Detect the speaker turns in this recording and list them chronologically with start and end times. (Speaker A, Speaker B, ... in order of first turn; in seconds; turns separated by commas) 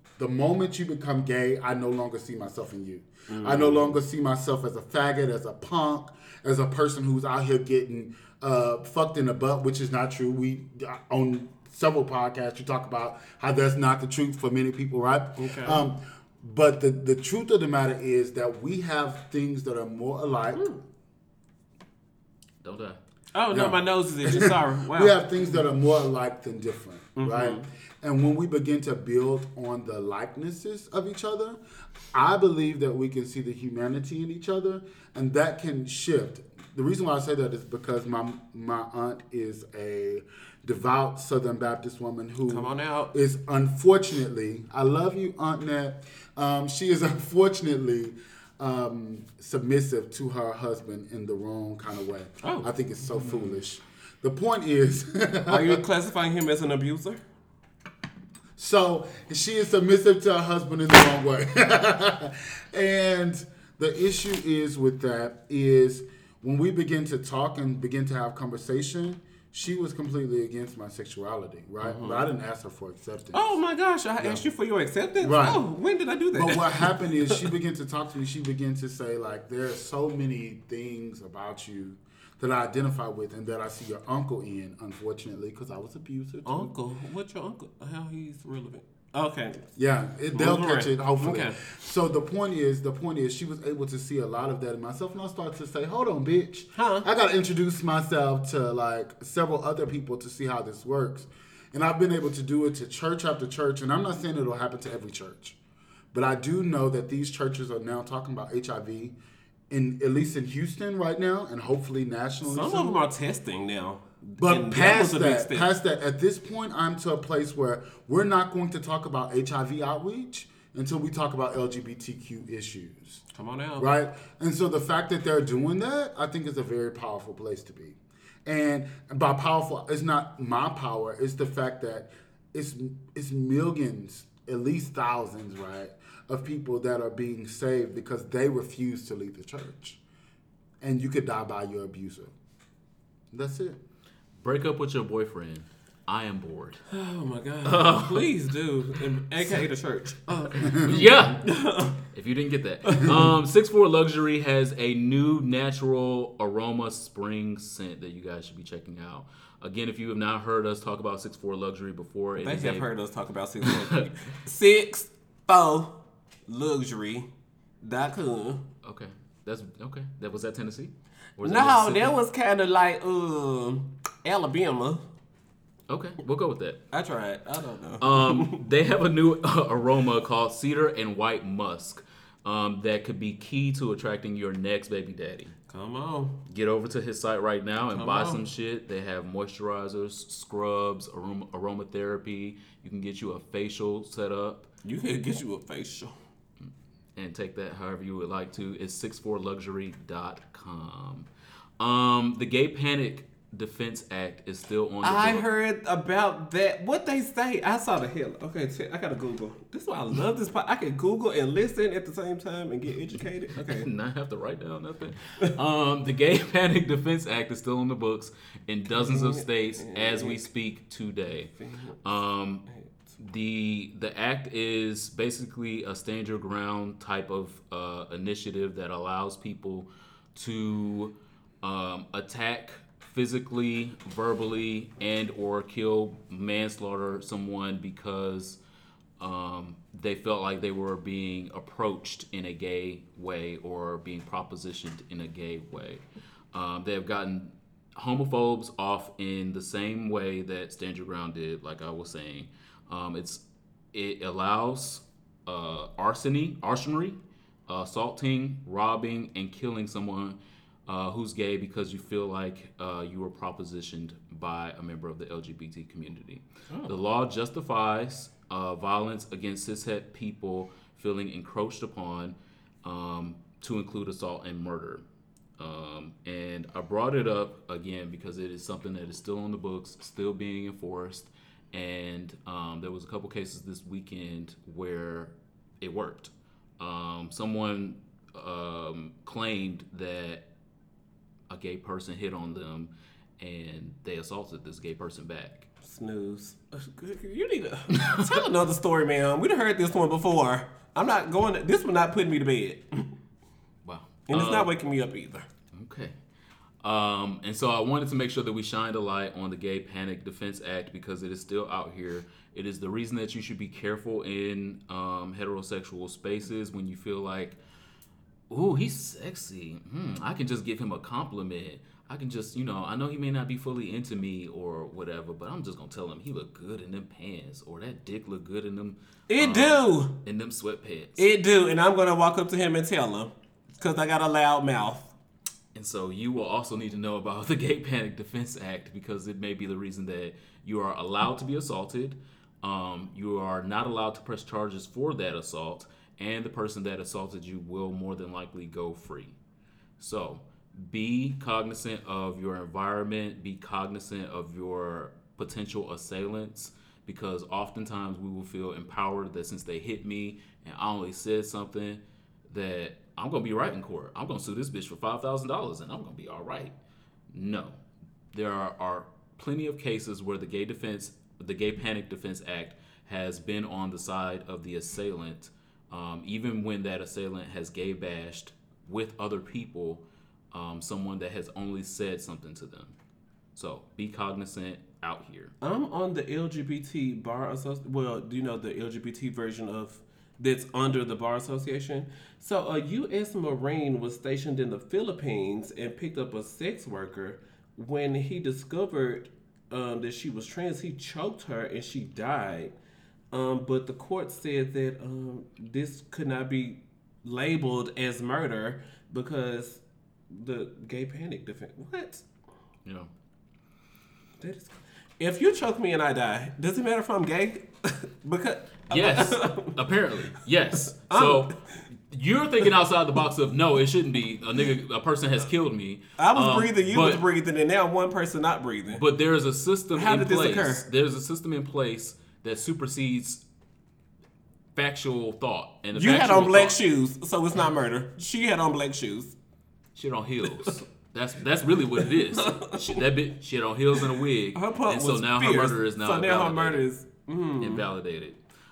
Speaker A: 0.2-20.8, Speaker B: 3.3-4.0, Speaker B: 15.4-15.8, Speaker B: 20.6-20.8, Speaker C: 22.6-23.0, Speaker B: 23.3-25.6, Speaker A: 23.5-31.6, Speaker B: 27.2-27.6, Speaker A: 32.1-55.8, Speaker B: 42.5-43.1, Speaker B: 52.4-53.5, Speaker B: 55.5-57.2, Speaker A: 58.5-73.5, Speaker B: 71.8-72.2, Speaker B: 73.3-77.5, Speaker A: 75.2-75.6, Speaker A: 76.3-86.7, Speaker B: 86.4-89.7, Speaker A: 89.8-105.6, Speaker B: 90.3-91.6, Speaker B: 96.8-97.1, Speaker A: 106.1-109.2, Speaker A: 109.7-113.0, Speaker B: 112.5-115.7, Speaker A: 114.4-123.2, Speaker B: 123.3-123.9, Speaker A: 123.8-140.0, Speaker A: 140.8-142.3, Speaker A: 143.3-143.8, Speaker C: 144.4-146.8, Speaker B: 146.9-152.0, Speaker C: 147.6-148.3, Speaker A: 150.6-151.1, Speaker C: 150.7-151.4, Speaker C: 152.1-162.9, Speaker B: 152.9-153.3, Speaker B: 162.4-167.3, Speaker C: 163.6-164.0, Speaker B: 167.8-168.7, Speaker C: 168.8-172.1, Speaker B: 171.4-175.0, Speaker C: 175.9-176.8, Speaker B: 176.9-178.7, Speaker C: 178.0-185.5, Speaker B: 185.7-186.4, Speaker C: 186.5-194.7, Speaker B: 187.9-188.4, Speaker B: 194.8-196.1, Speaker C: 197.2-201.3, Speaker C: 201.8-205.4, Speaker B: 205.0-213.9, Speaker C: 213.6-221.5, Speaker B: 218.9-220.4, Speaker B: 221.6-222.0, Speaker C: 222.0-222.6, Speaker B: 222.7-222.9, Speaker C: 223.2-238.6, Speaker C: 239.2-275.0, Speaker B: 266.7-266.9, Speaker C: 275.6-290.4, Speaker C: 291.5-295.7, Speaker B: 295.8-303.1, Speaker C: 297.9-298.4, Speaker C: 303.8-304.7, Speaker B: 304.3-305.5, Speaker C: 305.7-306.1, Speaker C: 306.8-317.6, Speaker C: 318.5-331.3, Speaker B: 329.3-330.2, Speaker B: 331.2-335.1, Speaker C: 335.7-349.4, Speaker C: 350.0-366.7, Speaker C: 367.3-367.8, Speaker C: 368.3-382.9, Speaker C: 383.5-385.5, Speaker B: 385.6-402.7, Speaker B: 403.3-412.2, Speaker B: 414.4-420.4, Speaker C: 418.9-427.2, Speaker B: 421.0-421.8, Speaker B: 426.2-429.0, Speaker C: 428.9-433.4, Speaker B: 429.9-430.9, Speaker C: 434.8-436.8, Speaker B: 435.9-439.4, Speaker C: 439.9-446.8, Speaker B: 441.9-443.0, Speaker B: 444.5-447.8, Speaker C: 447.6-448.4